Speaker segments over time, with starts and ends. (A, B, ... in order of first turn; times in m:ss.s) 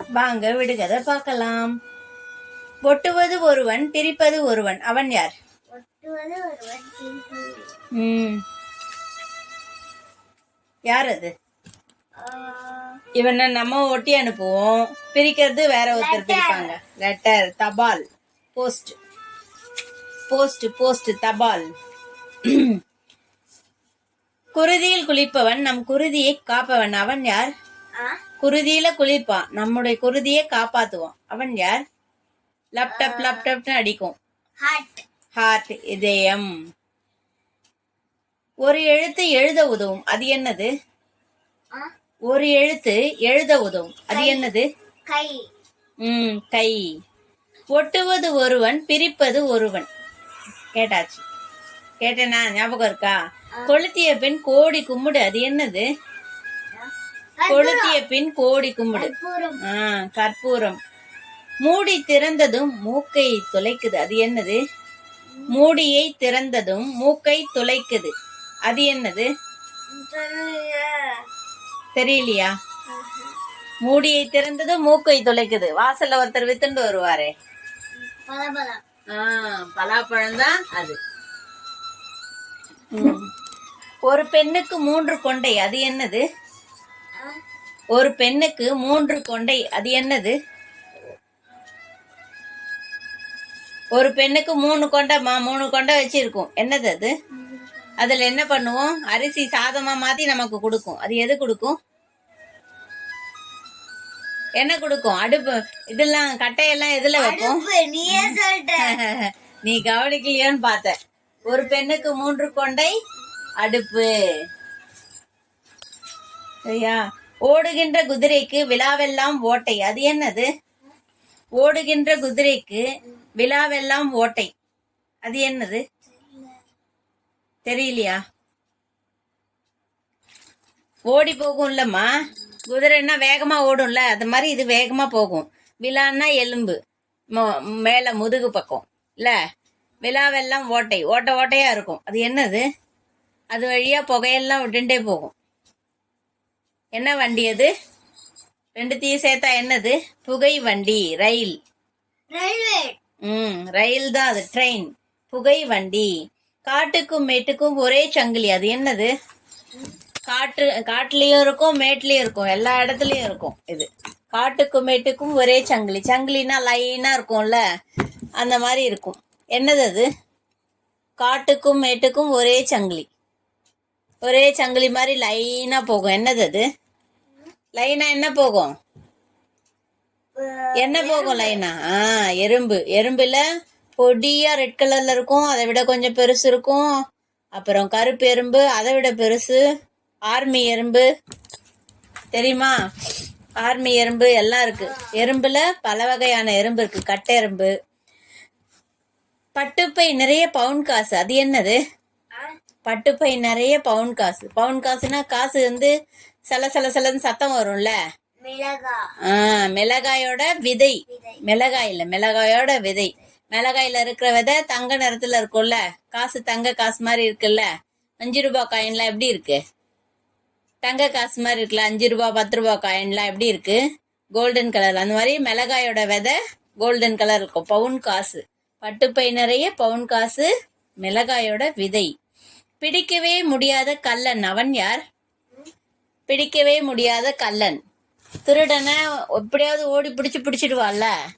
0:00.2-0:01.7 A
0:02.8-0:05.3 A
0:05.7-0:07.7 B
0:08.0-0:08.4 A
0:10.9-0:11.3 A
0:12.2-0:13.0 B
0:13.2-0:18.0 A
0:15.9-0:16.7 B
0:18.6-0:19.0 A
0:20.3-0:21.7 A
0:22.4-0:22.8 A
0:24.5-0:27.5 A
0:28.4-0:31.8 A
0:32.8-0:34.1 A
0:32.9-0:33.5 B
0:34.6-0:35.0 B
0:35.4-0:36.5 A
0:38.6-0:40.7 A
0:42.3-0:44.6 A
0:44.1-0:44.5 B
0:45.1-0:45.4 B
0:46.0-0:46.8 A
0:47.7-0:49.9 A
0:50.7-0:51.2 A
0:52.0-0:53.2 A
0:53.7-0:55.8 A
0:56.7-0:58.0 B
0:57.5-0:59.1 A
0:58.9-0:59.6 B
0:59.6-1:00.8 A
1:01.6-1:04.6 A
1:05.5-1:08.1 A
1:08.7-1:09.3 A
1:09.9-1:11.2 B
1:12.0-1:12.5 A
1:12.9-1:13.3 B
1:13.8-1:17.3 A
1:18.0-1:18.8 B
1:19.1-1:21.0 A
1:22.9-1:23.3 A
1:24.1-1:26.2 A
1:27.9-1:30.3 A
1:34.0-1:37.1 A
1:37.4-1:37.7 B
1:38.0-1:41.8 A
1:44.6-1:53.0 A
1:47.1-1:49.0 B
1:51.4-1:52.5 B
1:53.6-1:54.1 A
1:56.7-2:00.5 A
2:01.6-2:02.8 A
2:03.4-2:04.5 A
2:05.2-2:05.8 A
2:06.0-2:06.6 B
2:07.6-2:08.2 A
2:11.1-2:12.1 A
2:12.7-2:16.8 A
2:17.3-2:19.4 A
2:20.0-2:22.6 A
2:23.5-2:25.3 A
2:27.0-2:27.7 A
2:28.8-2:31.5 A
2:32.3-2:33.0 B
2:33.3-2:36.1 A
2:36.7-2:39.1 A
2:40.3-2:47.6 A
2:48.4-2:50.1 A
2:51.2-2:53.1 A
2:54.2-2:56.6 A
2:57.8-2:58.7 A
3:00.4-3:01.6 B
3:00.8-3:03.4 A
3:04.0-3:06.9 A
3:07.6-3:09.6 A
3:10.3-3:11.0 A
3:12.3-3:12.7 A
3:13.6-3:17.7 A
3:14.7-3:15.1 B
3:19.6-3:21.8 A
3:22.9-3:25.9 A
3:26.5-3:27.9 A
3:28.4-3:29.0 B
3:29.3-3:37.7 A
3:31.1-3:31.4 B
3:38.2-3:39.6 A
3:40.8-3:43.8 A
3:44.4-3:50.5 A
3:51.0-3:52.1 A
3:52.8-3:55.0 A
3:56.3-3:57.8 A
3:58.5-4:01.1 A